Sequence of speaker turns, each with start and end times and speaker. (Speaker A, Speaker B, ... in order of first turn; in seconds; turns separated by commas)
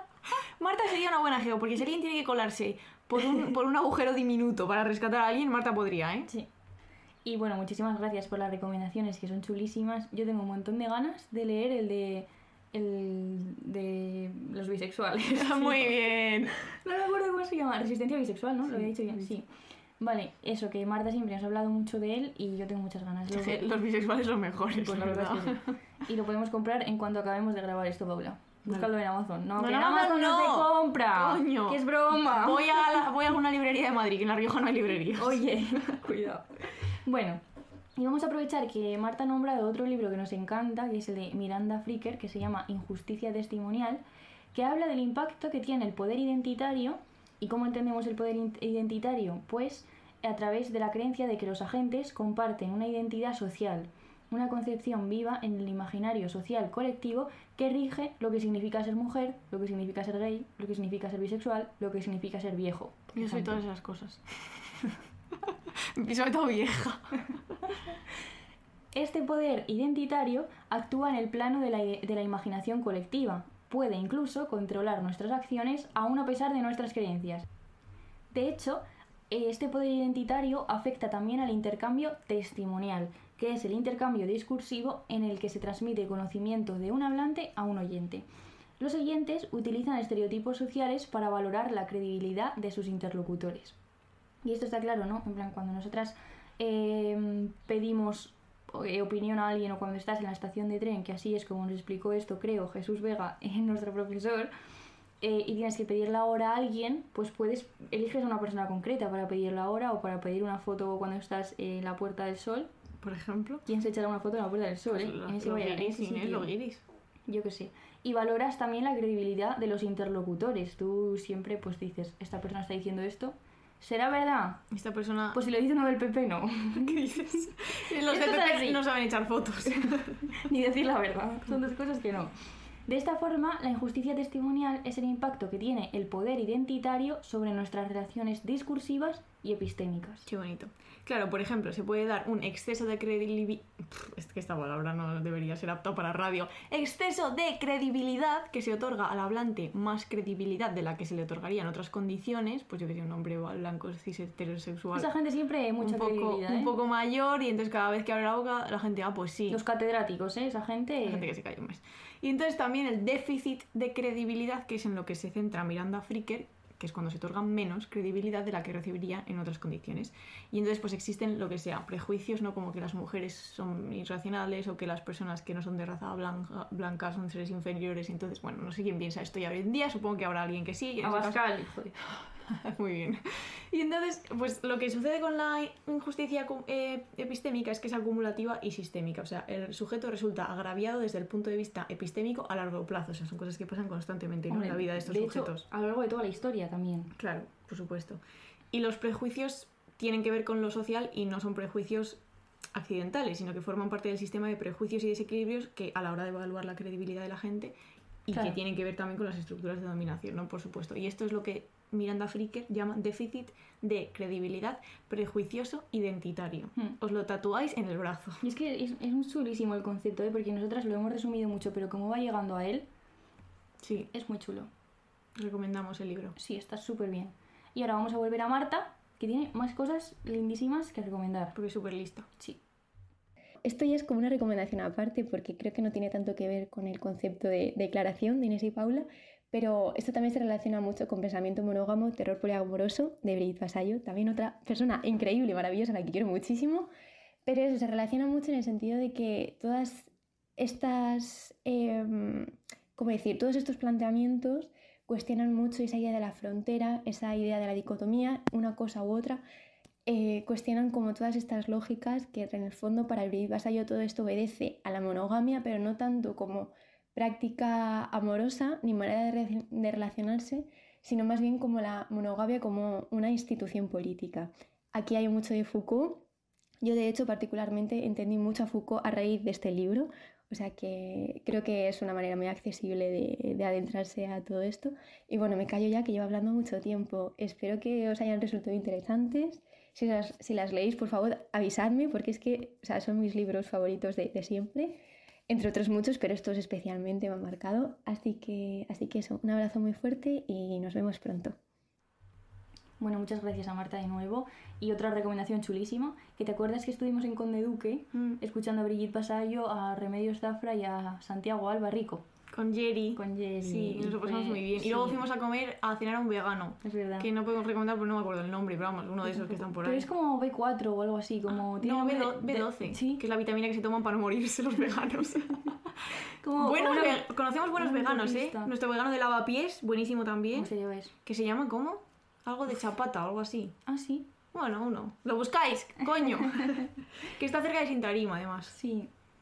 Speaker A: 0.6-6.3, Speaker B: 7.2-15.9, Speaker A: 15.3-16.6, Speaker B: 16.8-19.5, Speaker A: 18.8-19.3, Speaker B: 20.0-23.6, Speaker A: 23.3-25.7, Speaker B: 24.7-32.8, Speaker A: 29.6-35.5, Speaker B: 35.2-37.4, Speaker B: 38.0-63.6, Speaker A: 63.1-64.7, Speaker A: 66.0-67.3, Speaker B: 68.9-77.5, Speaker B: 78.3-88.2, Speaker B: 88.8-93.8, Speaker B: 94.4-104.5, Speaker B: 105.2-112.7, Speaker A: 113.0-113.6, Speaker B: 113.7-116.5, Speaker A: 114.9-116.8, Speaker B: 117.3-124.6, Speaker A: 124.7-125.4, Speaker B: 125.3-127.0, Speaker A: 126.8-130.3, Speaker B: 128.1-128.8, Speaker B: 129.7-132.3, Speaker B: 132.9-140.3, Speaker A: 140.3-155.1, Speaker B: 154.9-156.7, Speaker A: 155.8-159.6, Speaker B: 159.5-161.3, Speaker A: 161.1-181.4, Speaker B: 181.0-182.0, Speaker A: 182.1-195.7, Speaker B: 194.5-197.1, Speaker A: 197.2-198.2, Speaker A: 198.7-202.2, Speaker A: 202.7-207.7, Speaker A: 208.3-218.4, Speaker B: 218.4-222.9, Speaker A: 223.8-224.1, Speaker B: 224.1-224.7, Speaker A: 225.4-226.4, Speaker B: 226.4-231.6, Speaker A: 231.6-232.3, Speaker C: 233.6-246.9, Speaker C: 247.5-259.4, Speaker C: 260.1-276.3, Speaker C: 276.8-301.6, Speaker B: 303.0-312.2, Speaker A: 308.1-308.4, Speaker A: 312.5-320.1, Speaker B: 313.2-315.2, Speaker B: 316.8-317.3, Speaker B: 319.3-323.2, Speaker A: 321.5-325.8, Speaker B: 326.4-327.2, Speaker A: 326.6-330.7, Speaker B: 327.8-328.7, Speaker B: 330.5-331.1, Speaker A: 331.2-333.8, Speaker B: 333.9-334.3, Speaker A: 334.5-338.8, Speaker B: 338.7-339.1